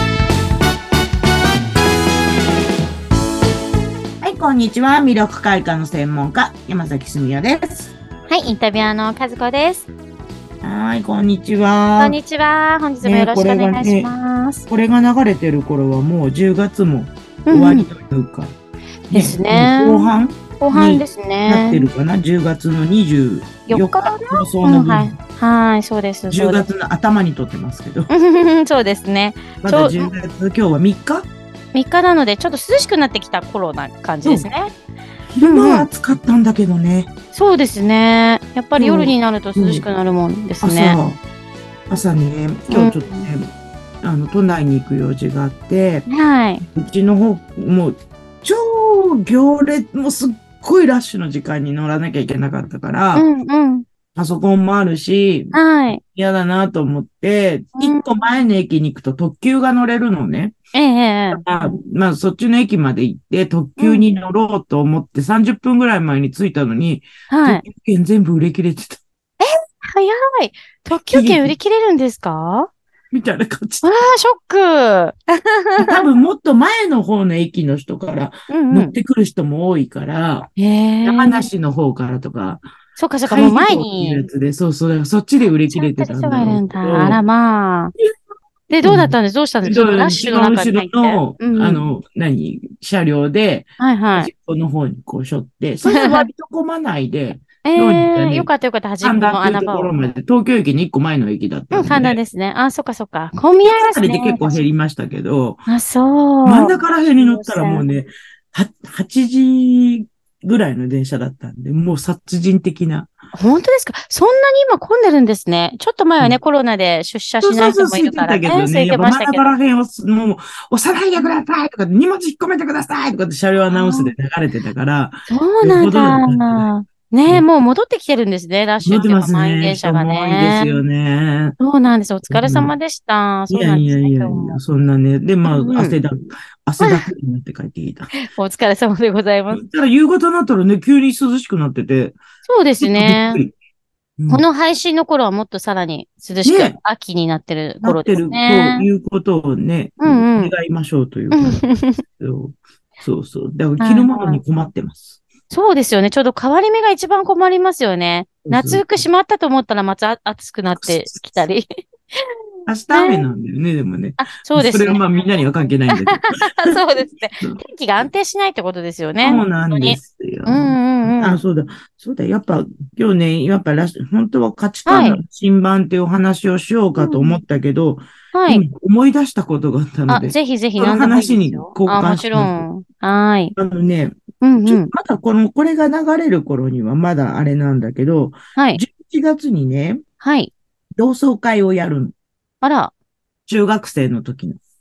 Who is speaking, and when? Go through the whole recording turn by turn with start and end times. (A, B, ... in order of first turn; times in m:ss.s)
0:04.2-0:08.0 A
0:08.3-0:09.9 B
0:10.6-0:12.2 A
0:12.0-0:14.7 B
0:13.0-0:14.1 A
0:14.7-0:18.5 A
0:17.5-0:17.9 B
0:19.1-0:21.9 B
0:19.1-0:25.2 A
0:23.7-0:26.7 B
0:26.3-0:28.1 A
0:28.1-0:30.1 B
0:29.6-0:31.3 A
0:31.7-0:34.7 B
0:35.4-0:37.1 A
0:35.4-0:35.9 B
0:37.3-0:41.0 B
0:38.8-0:39.8 A
0:40.6-0:41.2 A
0:41.9-0:43.5 A
0:42.7-0:43.3 B
0:44.0-0:46.1 A
0:46.1-0:46.6 B
0:46.6-0:53.3 A
0:53.2-0:53.8 B
0:54.2-1:00.6 A
0:55.5-0:56.0 B
0:57.8-0:58.0 B
1:00.7-1:01.4 B
1:01.3-1:09.0 A
1:03.8-1:04.0 B
1:07.3-1:07.6 B
1:09.4-1:12.7 B
1:11.0-1:11.6 A
1:13.1-1:13.9 A
1:13.8-1:15.8 B
1:15.8-1:20.5 A
1:18.5-1:18.9 B
1:20.6-1:21.5 B
1:21.0-1:22.6 A
1:23.0-1:24.2 B
1:23.3-1:27.2 A
1:25.7-1:27.9 B
1:28.7-1:31.8 B
1:28.8-1:38.5 A
1:33.8-1:34.3 B
1:35.9-1:36.3 B
1:37.6-1:40.0 B
1:39.0-1:42.2 A
1:41.7-1:44.6 B
1:43.6-1:45.7 A
1:45.7-1:47.8 B
1:46.4-1:53.1 A
1:53.4-1:59.6 B
1:57.4-2:06.7 A
2:03.7-2:04.1 B
2:05.3-2:10.8 B
2:08.8-2:11.6 A
2:11.6-2:14.6 B
2:12.3-2:12.8 A
2:13.5-2:18.2 A
2:15.5-2:16.0 B
2:18.2-2:19.6 B
2:19.5-2:22.2 A
2:22.5-2:23.4 B
2:22.8-2:23.5 A
2:24.2-2:24.5 A
2:24.3-2:28.9 B
2:26.4-2:26.8 A
2:27.8-2:35.2 A
2:30.0-2:30.5 B
2:31.3-2:32.0 B
2:33.8-2:34.4 B
2:35.5-2:42.3 B
2:38.4-2:39.0 A
2:40.8-2:41.4 A
2:42.7-2:46.8 A
2:42.9-2:43.2 B
2:44.2-2:45.0 B
2:46.0-2:51.4 B
2:49.2-3:02.7 A
2:54.9-2:55.2 B
2:57.0-2:57.4 B
2:58.3-2:58.6 B
3:00.1-3:03.6 B
3:03.6-3:10.0 A
3:04.4-3:04.9 B
3:08.6-3:08.8 B
3:10.2-3:10.5 B
3:11.0-3:12.1 A
3:12.6-3:12.9 B
3:13.5-3:14.6 A